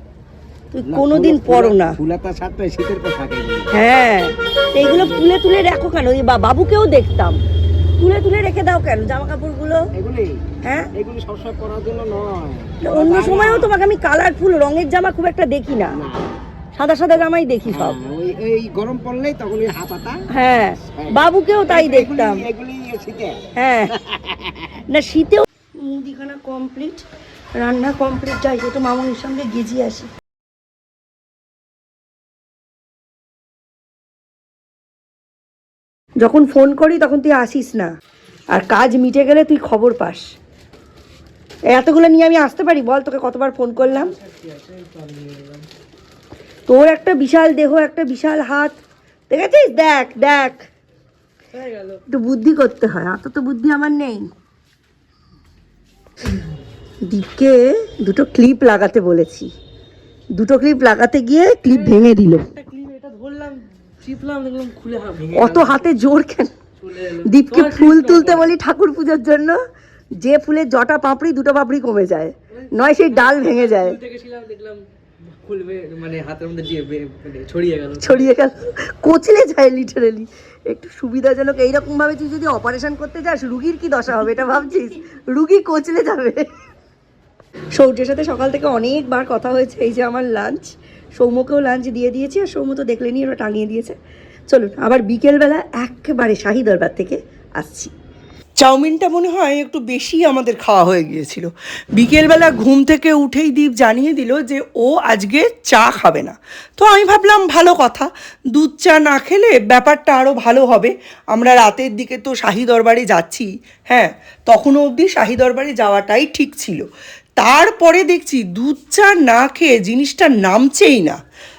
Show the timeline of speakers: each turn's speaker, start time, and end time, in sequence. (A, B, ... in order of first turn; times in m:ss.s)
0:00.7-0:02.0 A
0:00.8-0:03.7 B
0:03.7-0:07.4 A
0:04.8-0:05.2 B
0:08.0-0:09.8 A
0:10.0-0:10.4 B
0:10.6-0:10.9 A
0:10.9-0:13.7 B
0:12.8-0:16.0 A
0:15.9-0:16.4 B
0:16.7-0:18.0 A
0:17.7-0:20.2 B
0:20.3-0:22.5 A
0:20.8-0:24.8 B
0:23.5-0:24.0 A
0:24.9-0:27.0 A
0:27.6-0:30.1 A
0:36.2-0:37.9 A
0:38.5-0:40.3 A
0:41.7-0:44.1 A
0:44.3-0:45.6 C
0:46.7-0:48.8 A
0:49.3-0:50.7 A
0:51.6-0:52.0 C
0:52.1-0:54.3 A
0:57.0-0:59.5 A
1:00.3-1:02.5 A
1:02.6-1:05.9 C
1:05.3-1:06.5 A
1:06.8-1:08.5 C
1:07.2-1:09.6 A
1:10.2-1:14.0 A
1:13.1-1:14.8 C
1:15.4-1:18.2 C
1:18.0-1:26.4 A
1:27.7-1:34.0 A
1:34.5-1:37.9 A
1:38.6-1:56.8 A
1:57.4-2:01.2 A